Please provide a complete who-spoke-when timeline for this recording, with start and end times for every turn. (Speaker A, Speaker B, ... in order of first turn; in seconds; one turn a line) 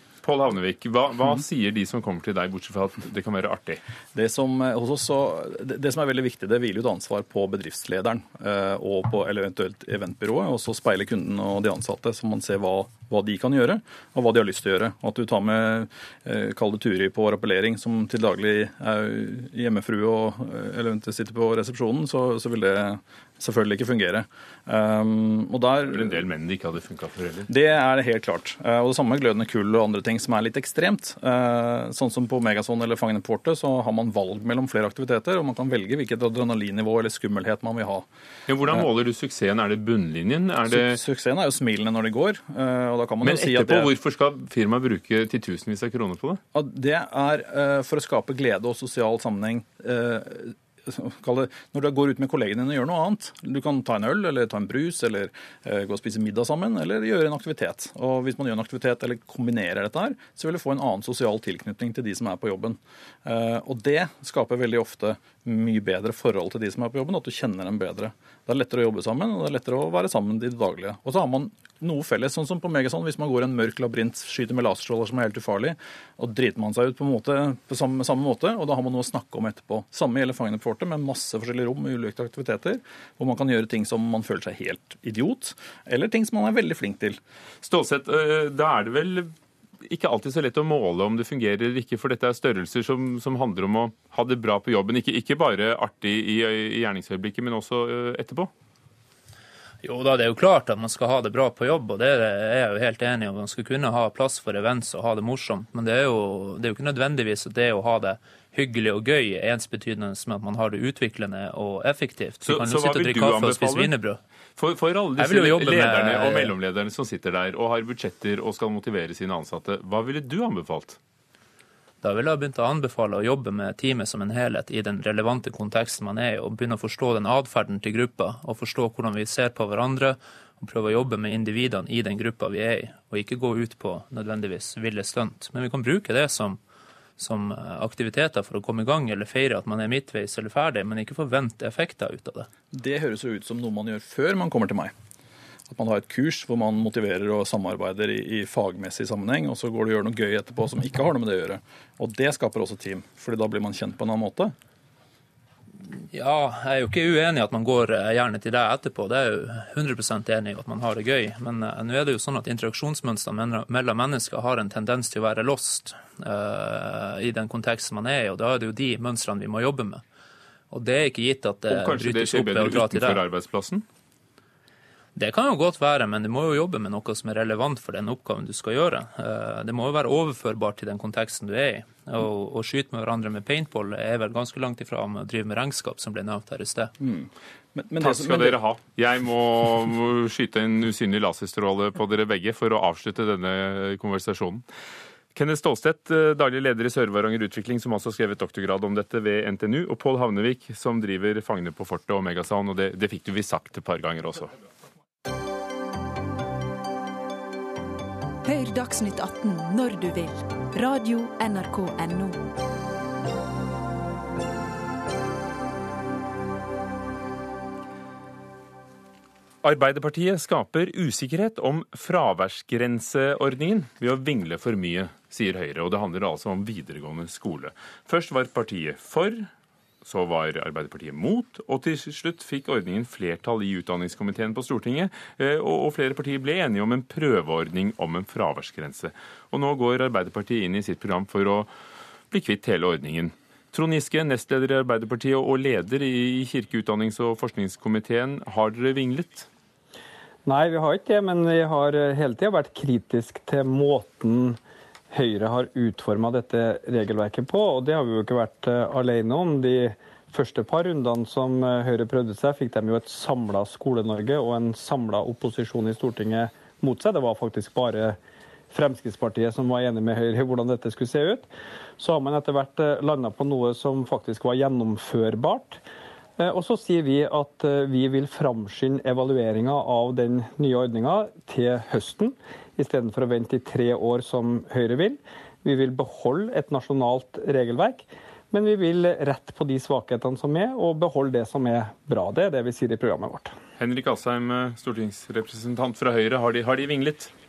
Speaker A: 0.2-3.8
Speaker B: 4.1-26.2
Speaker A: 25.9-27.5
Speaker B: 27.5-38.1
Speaker A: 38.5-41.0
Speaker B: 40.7-43.9
Speaker A: 43.2-46.4
Speaker B: 46.5-87.2
Speaker A: 87.6-89.3
Speaker A: 89.8-98.5
Speaker C: 99.8-114.2
Speaker A: 112.4-113.9
Speaker A: 114.6-121.0
Speaker C: 115.2-116.5
Speaker C: 122.0-136.6
Speaker C: 137.2-142.5
Speaker B: 142.7-144.9
Speaker B: 145.7-154.5
Speaker C: 156.1-170.0
Speaker C: 170.7-173.2
Speaker A: 171.7-173.8
Speaker C: 175.2-186.9
Speaker B: 187.0-188.6
Speaker A: 188.0-194.6
Speaker A: 195.3-204.5
Speaker D: 208.4-212.4
Speaker A: 219.6-229.5
Speaker A: 230.0-241.7
Speaker A: 242.3-249.5
Speaker E: 250.4-254.6
Speaker E: 255.1-268.2
Speaker E: 268.7-271.5
Speaker E: 272.0-275.8
Speaker E: 276.4-293.5
Speaker A: 293.8-297.3